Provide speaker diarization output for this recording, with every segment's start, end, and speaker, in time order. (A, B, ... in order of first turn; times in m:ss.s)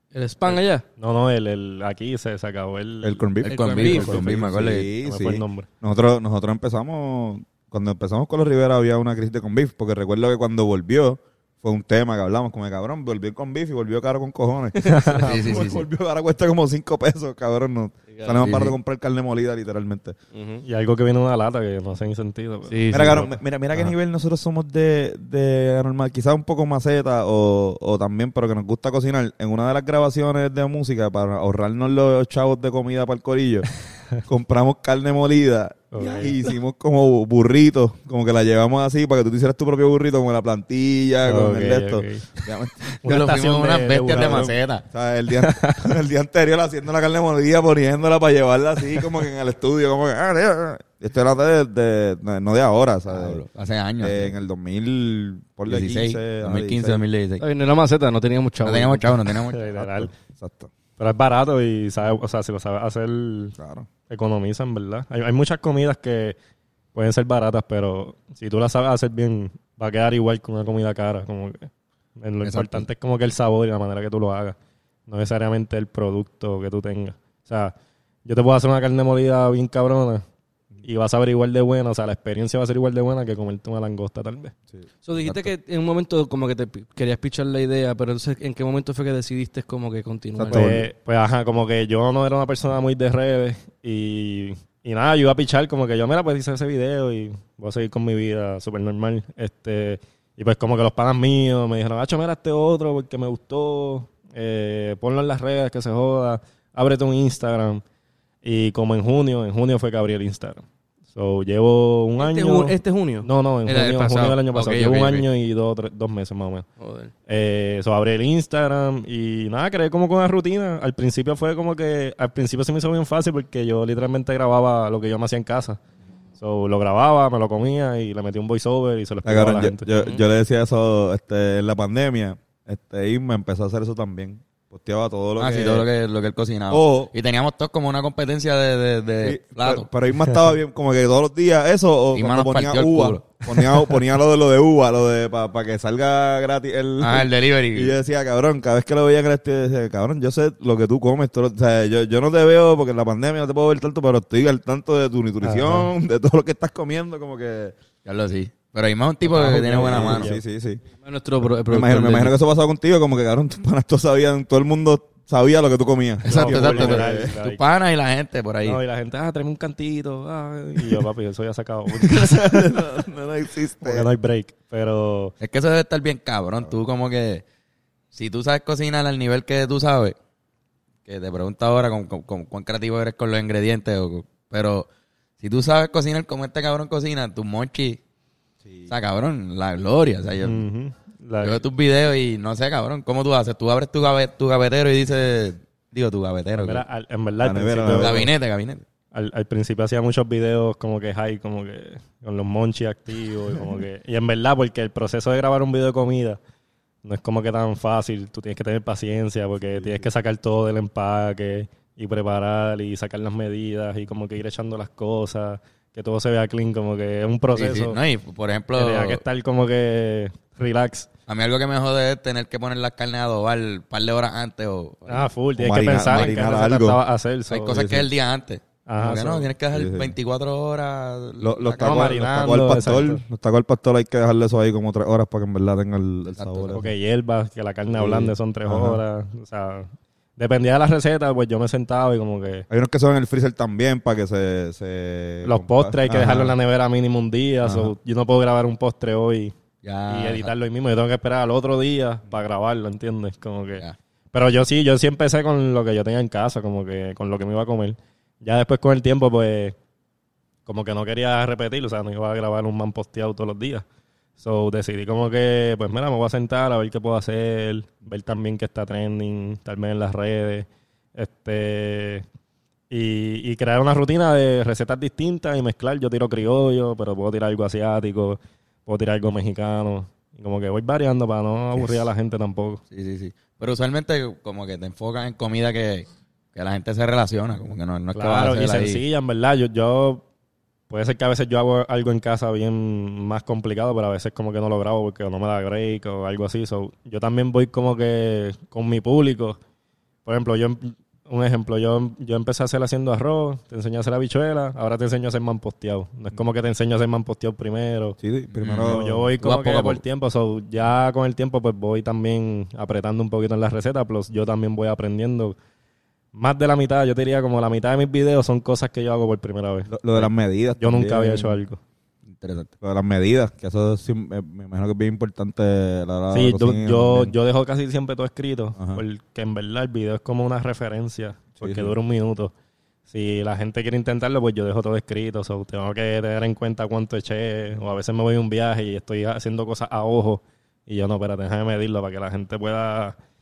0:00.1-0:00.8 A
0:00.4-0:03.3 B
0:03.0-0:20.2 C
0:03.4-0:04.9 D
0:03.4-0:04.3 A
0:04.0-0:05.7 B
0:14.8-0:15.3 B
0:15.1-0:15.8 D
0:18.1-0:18.7 A
0:20.3-0:20.6 A
0:20.6-0:23.9 B
0:22.7-0:23.3 A
0:22.9-0:33.7 C
0:34.2-0:42.8 C
0:35.9-0:36.4 B
0:41.2-0:42.3 B
0:43.0-0:44.5 B
0:43.0-0:44.8 D
0:44.1-0:53.4 C
0:45.4-0:45.9 B
0:53.1-0:54.3 D
0:54.0-0:57.0 C
0:55.7-0:57.4 D
0:57.4-0:59.3 A
0:58.6-0:59.8 D
0:59.5-1:00.1 B
0:59.8-1:00.7 C
1:01.0-1:03.6 B
1:03.6-1:03.9 C
1:04.1-1:06.4 B
1:06.9-1:14.6 B
1:12.4-1:12.8 D
1:15.1-1:20.2 B
1:20.8-1:24.5 B
1:25.0-1:30.7 A
1:30.4-1:30.9 C
1:30.5-1:47.8 B
1:48.4-1:50.6 B
1:51.1-1:56.6 B
1:52.2-1:55.3 A
1:56.8-1:57.1 A
1:57.3-2:05.8 B
2:06.4-2:09.9 B
2:09.2-2:15.9 C
2:10.0-2:10.2 A
2:15.4-2:19.9 D
2:16.7-2:17.1 C
2:19.2-2:37.7 C
2:22.1-2:23.8 D
2:27.0-2:27.9 D
2:35.4-2:35.9 B
2:38.0-2:40.3 D
2:39.2-2:40.4 B
2:39.4-2:40.8 C
2:41.0-2:42.4 A
2:41.7-2:47.3 C
2:46.2-2:48.8 D
2:46.2-2:47.6 B
2:48.6-2:52.9 B
2:51.9-2:54.1 C
2:53.8-2:55.3 B
2:55.4-2:57.4 D
2:58.1-3:00.2 D
3:01.0-3:04.9 D
3:05.4-3:08.0 D
3:08.6-3:08.9 C
3:08.9-3:10.6 D
3:10.4-3:11.6 B
3:11.4-3:16.8 D
3:16.6-3:18.3 B
3:17.4-3:18.3 C
3:17.9-3:18.8 D
3:19.1-3:26.4 B
3:27.0-3:38.0 B
3:29.7-3:30.0 C
3:37.5-3:39.2 D
3:38.7-3:41.1 B
3:41.3-3:45.3 D
3:45.1-3:47.8 B
3:45.6-3:47.0 C
3:45.9-3:46.3 D
3:47.5-3:52.2 D
3:47.7-3:48.1 C
3:48.9-3:49.5 B
3:49.7-3:50.2 C
3:51.4-3:56.9 C
3:51.8-3:53.2 B
3:56.3-3:56.8 D
3:56.7-4:02.7 B
3:57.9-3:59.0 C
4:02.7-4:06.6 C
4:05.4-4:09.5 B
4:07.6-4:07.9 C
4:09.8-4:10.5 D
4:10.1-4:19.8 B
4:20.6-4:23.8 B
4:24.4-4:32.2 B
4:32.9-4:42.8 B
4:42.9-4:49.0 D
4:48.1-4:50.2 B
4:50.9-4:59.6 B
5:00.2-5:08.2 B
5:08.2-5:09.3 C
5:08.5-5:10.0 D
5:08.9-5:15.6 B
5:16.3-5:21.8 B
5:19.9-5:21.6 C
5:22.3-5:22.7 D
5:22.8-5:27.3 C
5:26.3-5:32.5 B
5:28.8-5:29.0 C
5:31.6-5:31.9 C
5:33.1-5:43.2 B